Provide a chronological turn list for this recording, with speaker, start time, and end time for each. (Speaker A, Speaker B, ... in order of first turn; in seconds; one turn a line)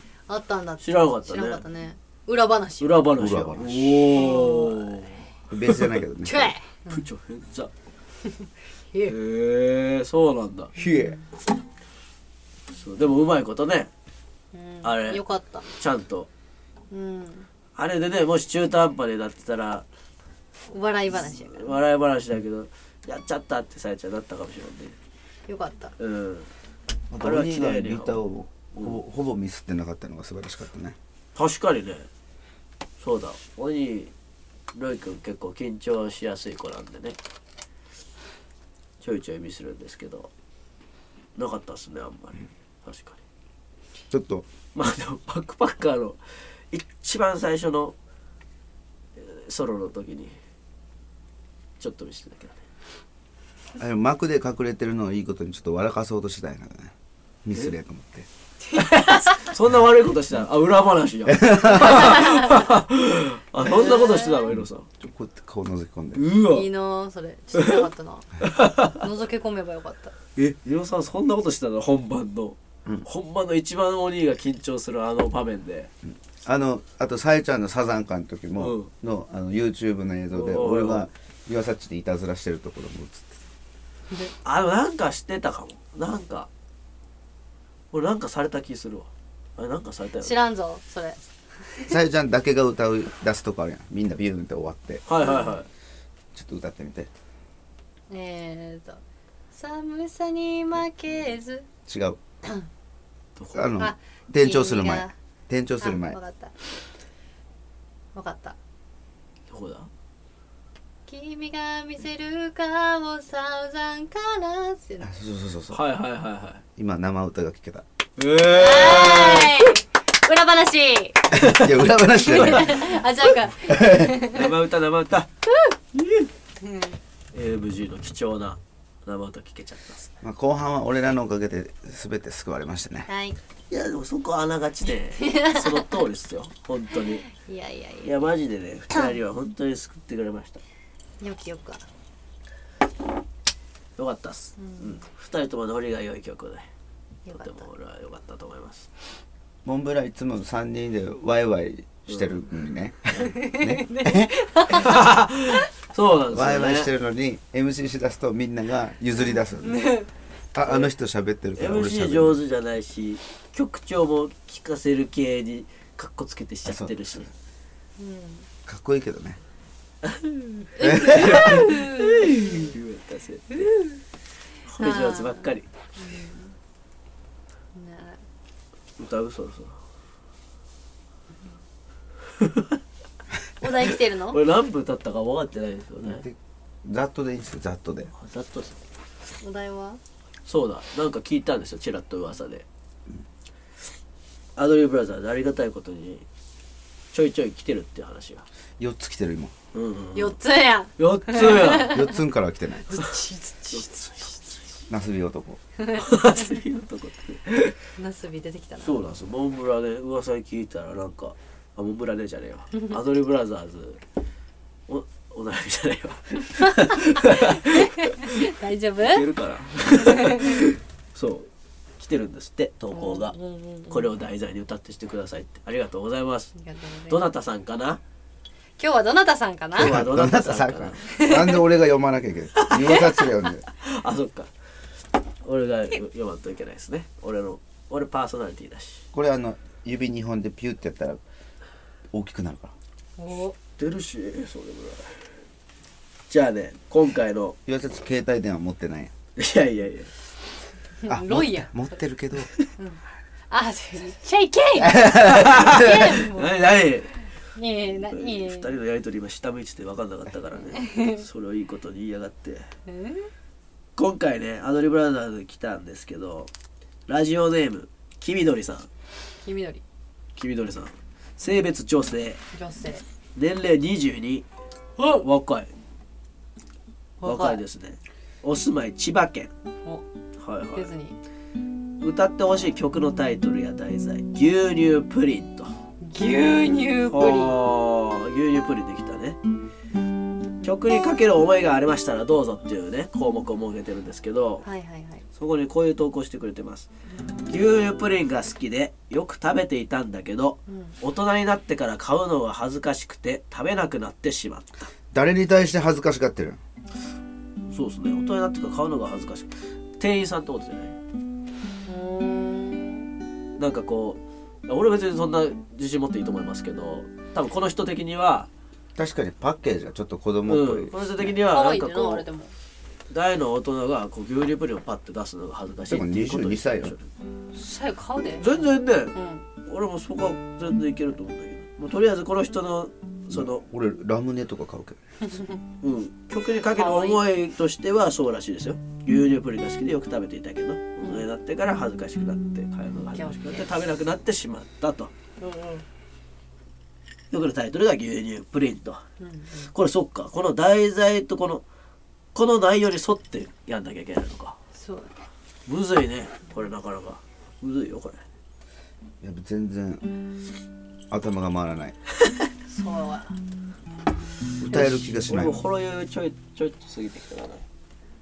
Speaker A: 0.3-3.1
Speaker B: 0.8-1.6
Speaker B: 2.8-6.0
Speaker C: 3.1-4.1
Speaker A: 4.1-5.2
Speaker C: 5.5-6.5
Speaker A: 6.2-7.0
Speaker B: 6.9-7.7
Speaker A: 8.4-9.2
Speaker B: 9.1-10.8
Speaker A: 10.8-11.2
Speaker B: 12.7-13.9
Speaker A: 14.5-15.7
Speaker B: 14.8-16.3
Speaker A: 16.9-17.5
Speaker B: 17.8-19.8
Speaker A: 20.7-21.8
Speaker B: 21.1-24.9
Speaker A: 25.5-25.9
Speaker B: 26.0-26.5
Speaker C: 27.1-30.9
Speaker B: 27.2-28.2
Speaker B: 28.7-29.0
Speaker B: 31.3-32.1
Speaker B: 33.0-34.1
Speaker B: 34.7-37.2
Speaker B: 39.0-40.3
Speaker B: 41.4-43.2
Speaker C: 44.1-44.5
Speaker B: 44.8-46.2
Speaker B: 46.7-47.9
Speaker B: 49.1-50.3
Speaker B: 51.8-52.6
Speaker C: 53.8-56.9
Speaker C: 57.4-58.3
Speaker B: 58.7-64.9
Speaker C: 61.3-62.2
Speaker A: 63.6-64.5
Speaker C: 65.0-66.3
Speaker B: 66.1-66.7
Speaker A: 66.5-70.1
Speaker B: 67.5-67.8
Speaker B: 68.4-68.9
Speaker B: 70.4-75.9
Speaker C: 76.1-83.4
Speaker B: 78.6-78.9
Speaker B: 80.3-81.1
Speaker B: 84.4-86.5
Speaker B: 87.9-90.3
Speaker A: 90.2-91.9
Speaker C: 91.9-95.0
Speaker B: 95.1-95.7
Speaker A: 95.2-95.6
Speaker C: 96.3-97.1
Speaker A: 98.1-99.0
Speaker A: 99.5-101.7
Speaker C: 101.9-102.2
Speaker B: 103.3-103.7
Speaker C: 103.5-106.2
Speaker A: 103.8-105.1
Speaker A: 105.8-106.5
Speaker A: 108.1-108.6
Speaker B: 109.5-109.9
Speaker A: 111.1-115.1
Speaker C: 115.0-115.8
Speaker B: 115.7-116.6
Speaker C: 116.8-117.8
Speaker B: 118.2-119.7
Speaker A: 118.5-121.3
Speaker C: 121.3-122.9
Speaker B: 121.4-121.7
Speaker A: 122.1-124.5
Speaker B: 122.2-123.0
Speaker C: 123.6-124.3
Speaker B: 124.3-125.3
Speaker B: 125.9-126.3
Speaker A: 126.6-127.0
Speaker B: 127.3-130.1
Speaker C: 130.2-133.1
Speaker A: 133.1-133.4
Speaker B: 133.7-137.2
Speaker A: 135.2-135.8
Speaker A: 137.1-138.3
Speaker B: 138.0-140.6
Speaker A: 141.2-141.8
Speaker B: 144.0-146.7
Speaker A: 144.6-145.0
Speaker A: 147.2-147.7
Speaker B: 147.3-148.9
Speaker C: 149.6-154.5
Speaker A: 153.2-155.0
Speaker B: 154.7-156.9
Speaker C: 156.3-159.9
Speaker A: 159.7-160.1
Speaker C: 160.5-162.4
Speaker B: 161.6-167.3
Speaker A: 168.0-168.5
Speaker C: 168.7-169.4
Speaker B: 170.0-173.8
Speaker A: 170.8-172.7
Speaker C: 170.8-171.7
Speaker A: 173.5-173.8
Speaker B: 174.7-175.7
Speaker A: 174.8-176.5
Speaker A: 177.7-178.2
Speaker B: 179.0-179.8
Speaker B: 182.4-182.8
Speaker A: 183.6-184.4
Speaker B: 183.9-186.2
Speaker C: 186.0-188.1
Speaker B: 188.2-188.8
Speaker A: 189.4-190.0
Speaker B: 190.4-192.6
Speaker B: 194.6-196.2
Speaker B: 197.1-198.4
Speaker C: 198.8-199.5
Speaker B: 199.7-200.4
Speaker A: 200.1-202.2
Speaker B: 201.0-202.0
Speaker C: 201.7-202.9
Speaker A: 202.8-204.4
Speaker B: 203.7-204.3
Speaker C: 204.9-205.6
Speaker B: 205.9-207.8
Speaker A: 208.0-209.0
Speaker B: 208.8-214.0
Speaker B: 214.9-218.3
Speaker A: 216.8-219.3
Speaker B: 219.0-223.3
Speaker A: 220.0-220.6
Speaker A: 222.9-224.1
Speaker B: 223.9-226.5
Speaker A: 226.5-227.3
Speaker B: 227.1-228.0
Speaker A: 228.8-230.0
Speaker C: 229.8-233.7
Speaker B: 229.8-231.0
Speaker A: 231.1-231.6
Speaker B: 232.6-233.0
Speaker B: 233.8-234.5
Speaker B: 235.4-239.0
Speaker C: 239.1-241.2
Speaker C: 242.1-242.7
Speaker A: 243.2-243.6
Speaker B: 243.8-245.2
Speaker B: 246.3-247.6
Speaker C: 247.7-249.1
Speaker B: 249.4-250.1
Speaker A: 251.0-251.9
Speaker C: 251.1-252.5
Speaker A: 252.8-256.7
Speaker C: 254.8-256.1
Speaker B: 255.2-257.2
Speaker A: 257.5-258.7
Speaker B: 257.9-262.7
Speaker A: 260.8-261.2
Speaker A: 262.9-263.3
Speaker B: 263.9-266.5
Speaker B: 267.1-268.9
Speaker A: 269.4-269.8
Speaker B: 270.4-272.4
Speaker A: 272.5-273.0
Speaker B: 273.4-274.4
Speaker B: 275.0-275.7
Speaker A: 277.2-277.6
Speaker B: 277.2-279.5
Speaker B: 280.4-280.9
Speaker A: 280.7-281.2
Speaker B: 282.0-285.7
Speaker A: 286.0-287.6
Speaker B: 287.1-289.4
Speaker B: 290.6-294.6
Speaker A: 294.6-295.2
Speaker B: 295.3-296.9
Speaker B: 297.5-304.9
Speaker A: 300.7-300.9
Speaker C: 305.1-306.6
Speaker B: 307.7-311.0
Speaker A: 311.8-313.1
Speaker B: 313.6-318.5
Speaker C: 318.9-321.3
Speaker B: 320.4-322.2
Speaker A: 321.5-322.5
Speaker B: 323.1-327.1
Speaker C: 325.9-326.9
Speaker A: 327.5-329.4
Speaker B: 328.4-329.1
Speaker B: 329.6-333.6
Speaker C: 333.3-335.0
Speaker A: 335.2-335.6
Speaker B: 335.8-345.1
Speaker A: 336.8-337.2
Speaker A: 341.0-341.2
Speaker A: 343.1-343.8
Speaker A: 345.4-345.8
Speaker B: 347.3-349.0
Speaker A: 349.2-349.7
Speaker B: 349.6-351.6
Speaker B: 352.3-354.6
Speaker A: 354.7-355.2
Speaker B: 355.7-358.2
Speaker C: 359.2-360.1
Speaker C: 361.1-362.0
Speaker A: 362.7-363.4
Speaker C: 364.6-365.6
Speaker B: 364.7-367.6